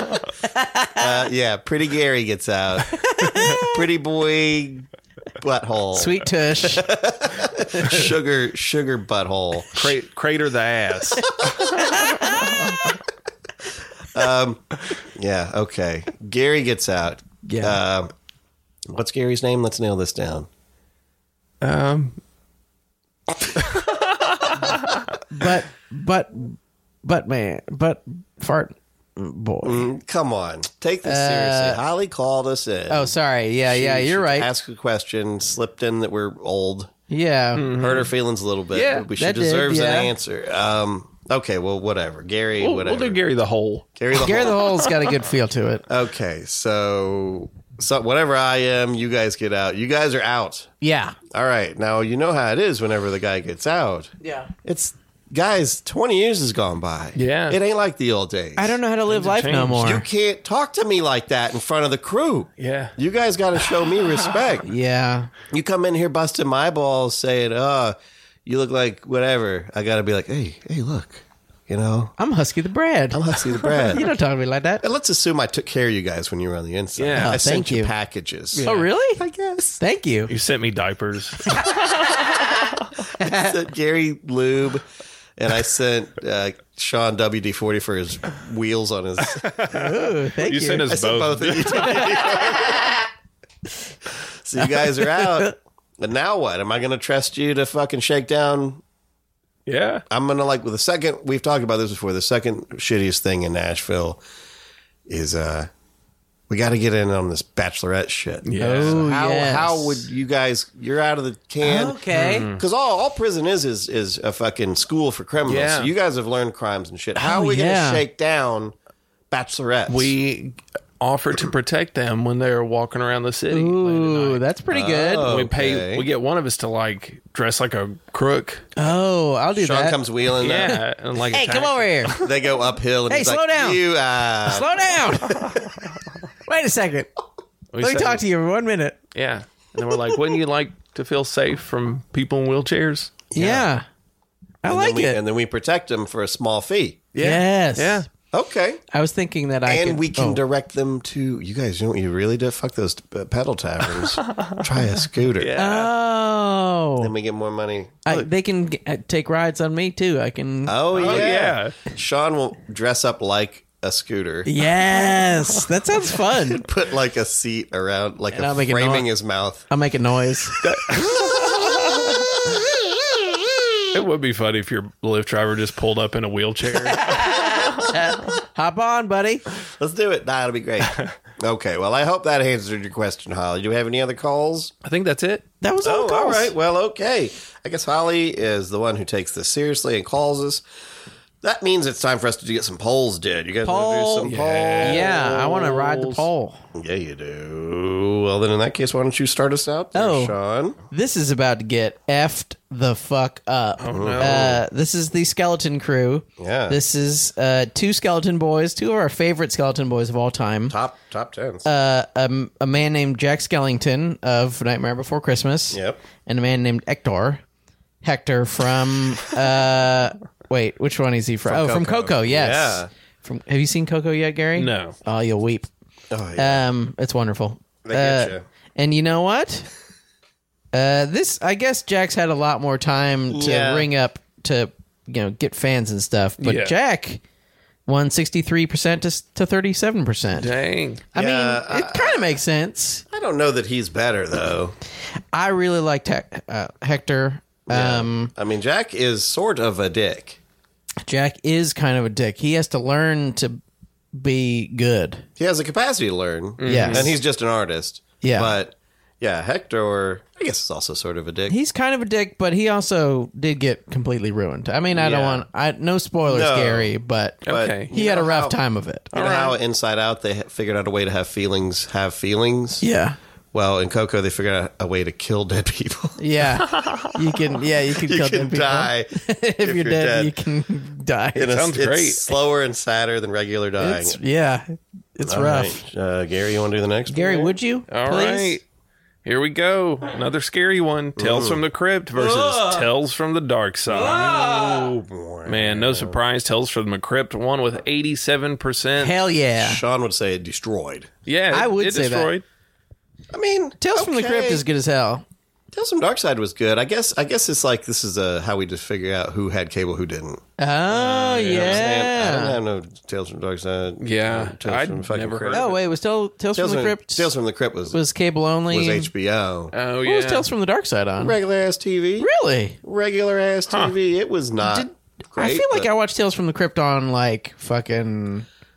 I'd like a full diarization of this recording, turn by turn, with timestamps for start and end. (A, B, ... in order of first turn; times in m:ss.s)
0:00.6-0:01.0 A
0:01.0-0:03.0 B
0:03.1-0:03.8 A
0:03.6-0:04.9 B
0:05.4-0:09.9 B
0:05.9-0:06.9 A
0:07.7-0:08.0 A
0:09.7-0:11.9 C
0:11.9-0:12.6 A
0:14.1-0:18.1 B
0:17.4-0:17.8 A
0:18.9-0:20.5 B
0:21.6-0:22.2 C
0:23.7-0:25.0 C
0:25.3-0:29.9 A
0:29.6-0:36.9 B
0:31.0-0:31.8 A
0:32.9-0:34.5 A
0:37.1-0:37.7 A
0:37.6-0:38.1 C
0:37.7-0:43.2 B
0:38.7-0:39.1 C
0:39.2-0:40.1 A
0:42.6-0:43.9 C
0:44.0-0:44.6 B
0:44.1-0:45.8 A
0:45.9-0:50.7 B
0:50.8-0:51.2 A
0:51.3-0:58.8 B
0:54.2-0:54.5 A
0:57.2-0:57.6 C
0:58.6-1:00.1 A
0:59.1-0:59.9 C
0:59.8-1:04.7 B
1:02.6-1:03.0 C
1:04.7-1:05.3 A
1:05.5-1:12.2 B
1:12.2-1:14.8 A
1:13.1-1:14.1 B
1:14.8-1:19.8 B
1:17.0-1:17.4 C
1:17.2-1:17.9 A
1:18.5-1:18.9 C
1:18.6-1:19.2 A
1:19.8-1:20.3 A
1:20.3-1:22.1 C
1:23.2-1:23.5 A
1:23.2-1:24.8 B
1:25.4-1:29.6 B
1:29.4-1:32.1 C
1:29.7-1:30.9 A
1:30.9-1:33.0 B
1:34.3-1:38.8 B
1:34.8-1:35.5 A
1:39.7-1:40.0 C
1:40.1-1:44.2 B
1:45.1-1:45.7 B
1:46.5-1:58.8 B
1:48.4-1:49.0 C
1:48.6-1:50.0 A
1:51.6-1:52.5 A
1:52.1-1:52.6 C
1:55.5-1:55.9 C
1:57.2-1:58.0 A
1:59.3-2:00.1 B
1:59.9-2:04.4 C
2:03.5-2:05.3 A
2:04.7-2:06.1 B
2:05.2-2:08.7 C
2:08.8-2:12.2 A
2:09.6-2:10.8 B
2:10.4-2:12.3 C
2:12.2-2:15.0 B
2:13.1-2:13.8 A
2:14.4-2:15.6 A
2:16.5-2:17.1 A
2:17.7-2:18.2 C
2:17.8-2:19.0 A
2:19.2-2:23.2 C
2:23.3-2:23.7 B
2:23.4-2:23.8 A
2:24.6-2:25.2 A
2:24.7-2:27.1 B
2:27.1-2:28.1 C
2:27.2-2:28.0 A
2:28.3-2:28.8 B
2:28.9-2:30.4 A
2:29.6-2:35.6 B
2:34.3-2:34.6 C
2:35.4-2:35.9 C
2:35.6-2:37.1 A
2:37.0-2:38.1 B
2:38.1-2:41.3 A
2:40.6-2:44.5 B
2:41.0-2:41.8 C
2:44.4-2:46.6 A
2:46.4-2:49.6 B
2:48.3-2:49.1 A
2:49.7-2:50.6 A
2:50.6-2:52.2 C
2:51.0-2:52.5 B
2:53.9-2:57.6 C
2:57.0-2:59.4 A
2:59.7-3:04.7 B
3:04.8-3:05.5 C
3:05.6-3:06.5 A
3:05.8-3:10.6 B
3:11.4-3:16.2 B
3:13.6-3:16.6 A
3:14.2-3:15.4 C
3:16.8-3:20.8 B
3:19.9-3:20.4 A
3:20.9-3:30.8 A
3:23.8-3:24.6 C
3:23.9-3:24.6 B
3:26.4-3:26.8 B
3:30.7-3:31.7 B
3:31.6-3:37.4 A
3:35.7-3:36.0 B
3:38.0-3:45.7 A
3:41.4-3:42.9 B
3:44.6-3:45.0 C
3:46.1-3:46.7 B
3:46.4-3:49.7 A
3:47.8-3:48.4 B
3:50.7-3:57.2 A
3:53.3-3:53.9 B
3:56.4-3:56.8 C
3:57.9-4:00.5 A
4:00.4-4:01.0 C
4:01.1-4:02.4 B
4:01.1-4:03.0 A
4:03.1-4:04.8 B
4:05.3-4:08.3 A
4:07.7-4:10.4 B
4:11.0-4:13.6 A
4:14.1-4:15.3 A
4:15.4-4:21.6 B
4:16.6-4:17.2 C
4:16.7-4:17.1 A
4:18.2-4:18.5 A
4:21.5-4:27.4 A
4:24.9-4:25.5 B
4:26.3-4:26.9 B
4:27.4-4:27.9 C
4:27.4-4:28.6 B
4:27.9-4:29.1 A
4:29.1-4:32.9 B
4:29.1-4:29.6 C
4:32.8-4:33.2 A
4:33.5-4:36.2 B
4:36.2-4:41.5 A
4:36.7-4:37.1 C
4:38.0-4:40.3 B
4:41.4-4:44.2 B
4:41.4-4:42.3 C
4:43.8-4:45.8 A
4:45.2-4:47.6 B
4:47.1-4:48.6 A
4:47.9-4:48.6 C
4:49.2-4:54.4 C
4:51.2-4:51.6 B
4:52.2-4:52.8 A
4:54.0-4:56.2 B
4:54.0-4:54.9 A
4:55.5-4:59.2 C
4:59.0-4:59.8 A
4:59.6-5:01.1 B
5:01.3-5:02.4 C
5:01.5-5:02.3 A
5:03.3-5:04.6 B
5:03.8-5:05.2 A
5:05.7-5:10.4 B
5:10.6-5:12.6 A
5:10.9-5:15.7 B
5:11.1-5:11.9 C
5:14.0-5:15.8 C
5:15.5-5:17.3 A
5:16.6-5:18.0 B
5:17.9-5:19.1 A
5:18.7-5:19.7 B
5:19.7-5:20.5 C
5:20.0-5:21.4 A
5:21.2-5:22.3 B
5:22.2-5:22.8 A
5:22.8-5:25.9 B
5:23.7-5:24.0 C
5:24.6-5:28.5 A